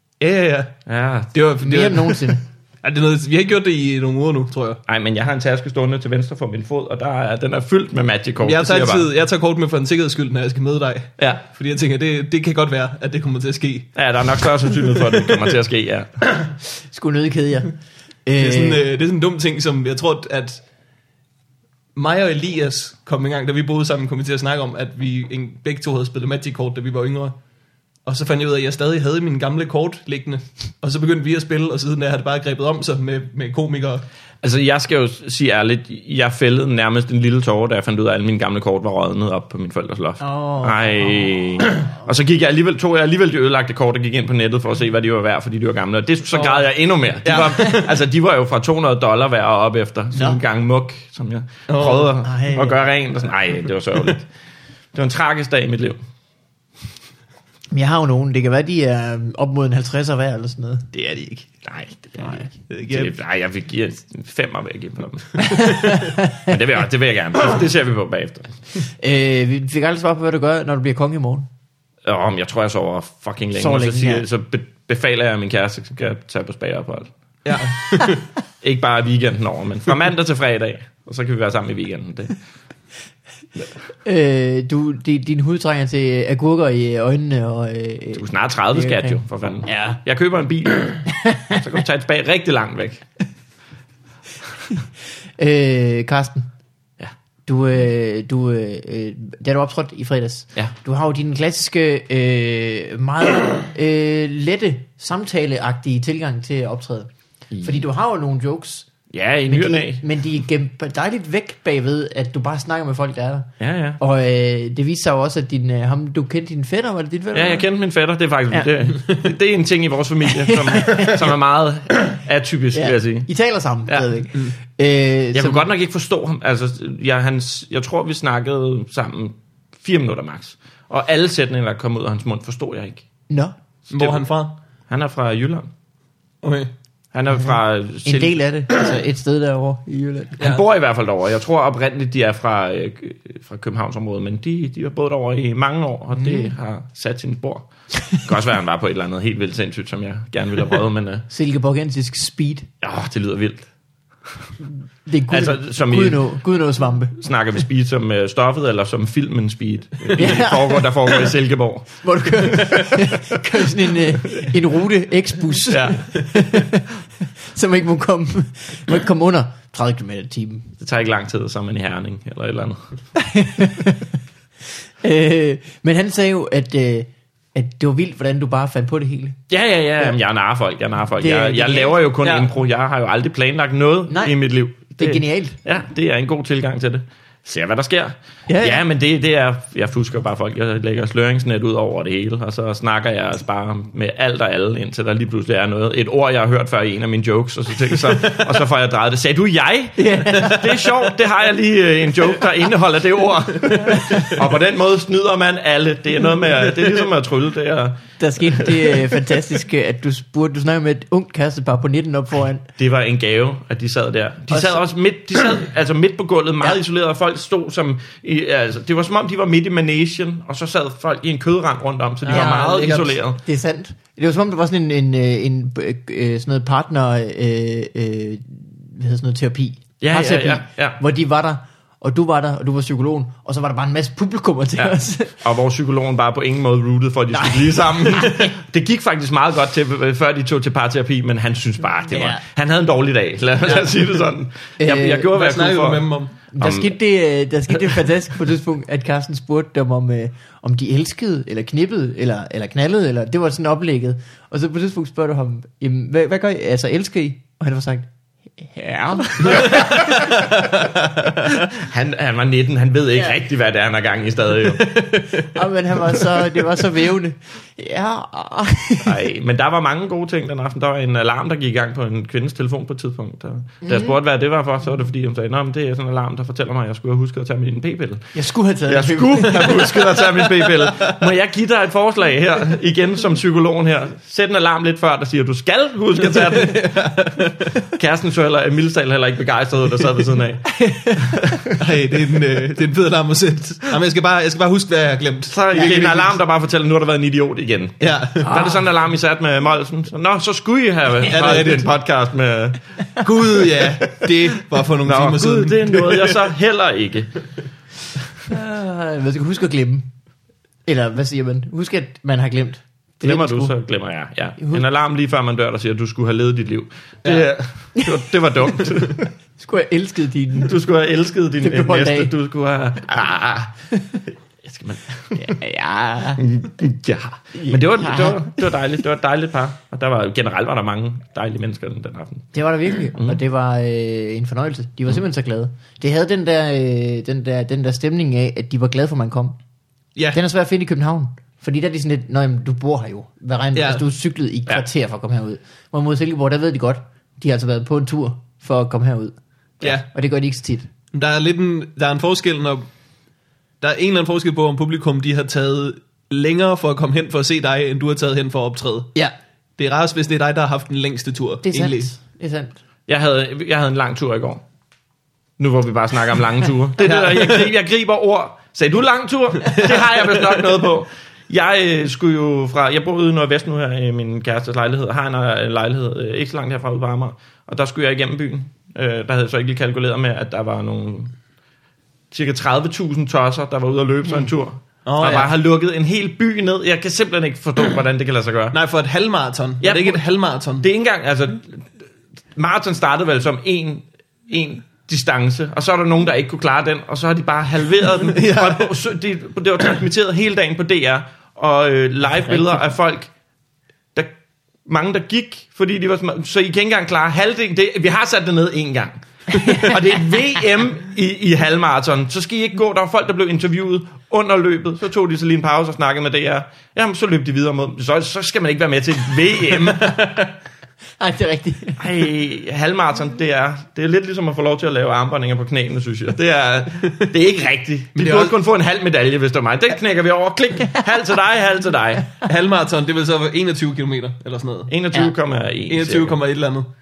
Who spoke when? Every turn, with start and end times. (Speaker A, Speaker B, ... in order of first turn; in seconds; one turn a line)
Speaker A: 0.2-0.8
Speaker B: 0.9-1.3
Speaker A: 1.3-4.8
Speaker C: 1.6-2.4
Speaker B: 4.9-9.1
Speaker A: 8.4-15.4
Speaker B: 11.2-11.4
Speaker B: 13.9-16.1
Speaker C: 16.9-17.7
Speaker C: 18.2-18.8
Speaker A: 18.4-20.6
Speaker A: 21.9-27.3
Speaker A: 28.0-34.0
Speaker B: 34.4-54.3
Speaker C: 40.2-42.0
Speaker A: 47.2-47.9
Speaker C: 50.1-50.4
Speaker A: 51.7-52.1
Speaker C: 52.2-52.9
Speaker B: 54.9-56.0
Speaker C: 57.7-60.9
Speaker A: 60.9-61.5
Speaker B: 61.6-68.5
Speaker A: 62.7-63.1
Speaker C: 65.5-66.5
Speaker C: 69.0-71.5
Speaker B: 72.0-77.1
Speaker C: 73.5-74.2
Speaker A: 77.4-78.2
Speaker B: 78.6-82.3
Speaker C: 84.0-90.0
Speaker B: 88.2-93.0
Speaker C: 91.1-91.6
Speaker C: 95.4-96.5
Speaker C: 97.5-107.1
Speaker B: 107.5-107.8
Speaker C: 107.6-108.9
Speaker B: 109.1-110.0
Speaker C: 109.5-117.6
Speaker B: 113.6-114.0
Speaker B: 117.3-123.3
Speaker C: 120.4-121.2
Speaker C: 122.7-125.7
Speaker B: 125.3-133.0
Speaker C: 133.3-133.5
Speaker B: 133.9-134.2
Speaker A: 133.9-134.5
Speaker B: 134.9-135.7
Speaker A: 136.4-136.7
Speaker B: 137.1-138.4
Speaker C: 138.0-140.4
Speaker B: 140.4-151.2
Speaker C: 146.2-146.5
Speaker C: 151.3-152.7
Speaker B: 152.8-153.7
Speaker C: 155.0-157.2
Speaker B: 155.3-156.2
Speaker B: 157.2-163.0
Speaker C: 160.2-160.9
Speaker C: 162.0-167.0
Speaker B: 165.7-166.2
Speaker C: 167.5-170.7
Speaker B: 170.8-172.8
Speaker C: 173.2-174.1
Speaker C: 175.0-179.4
Speaker B: 179.5-209.1
Speaker C: 181.2-182.4
Speaker C: 184.1-184.3
Speaker C: 185.0-185.6
Speaker C: 188.5-188.8
Speaker A: 198.1-198.4
Speaker C: 200.0-200.8
Speaker C: 203.9-204.3
Speaker C: 208.2-212.7
Speaker B: 212.8-223.4
Speaker C: 214.5-214.8
Speaker A: 222.2-223.2
Speaker C: 222.3-235.4
Speaker B: 230.0-231.0
Speaker B: 234.8-246.9
Speaker C: 237.3-238.5
Speaker C: 242.1-242.4
Speaker C: 244.8-245.3
Speaker A: 245.3-246.3
Speaker C: 246.5-260.4
Speaker A: 260.6-261.3
Speaker B: 261.4-264.9
Speaker A: 264.8-265.5
Speaker C: 265.4-269.1
Speaker B: 269.0-278.3
Speaker C: 273.8-274.2
Speaker C: 278.3-279.9
Speaker B: 278.9-286.8
Speaker A: 286.3-287.8
Speaker B: 287.9-291.8
Speaker C: 290.8-291.2
Speaker A: 291.8-296.4
Speaker B: 295.5-302.8
Speaker A: 298.0-298.5
Speaker C: 298.4-298.8
Speaker A: 301.3-301.9
Speaker A: 303.2-306.4
Speaker B: 305.0-307.4
Speaker C: 308.5-310.1
Speaker C: 310.9-313.7
Speaker B: 313.2-319.3
Speaker C: 314.6-314.8
Speaker A: 317.2-317.5
Speaker C: 319.6-320.8
Speaker B: 320.6-323.7
Speaker C: 321.6-322.3
Speaker B: 324.6-325.5
Speaker C: 325.3-326.4
Speaker B: 326.4-332.5
Speaker C: 327.6-328.6
Speaker C: 332.5-339.6
Speaker C: 340.3-350.9
Speaker A: 343.7-344.0
Speaker A: 351.1-352.9
Speaker A: 353.8-359.1
Speaker A: 359.8-362.1
Speaker C: 361.6-362.8
Speaker B: 363.1-364.6
Speaker B: 365.6-381.3
Speaker A: 367.0-367.7
Speaker B: 382.3-388.8
Speaker A: 385.0-385.5
Speaker A: 388.7-390.9
Speaker B: 389.8-390.2
Speaker B: 390.8-391.9
Speaker B: 392.5-403.3
Speaker A: 398.3-398.9
Speaker B: 404.9-409.1
Speaker C: 409.6-409.9
Speaker B: 409.6-420.1
Speaker A: 419.9-420.5
Speaker C: 421.2-422.0
Speaker B: 422.0-432.3
Speaker A: 428.1-428.6
Speaker A: 432.4-434.9
Speaker B: 434.9-436.4
Speaker A: 435.9-436.9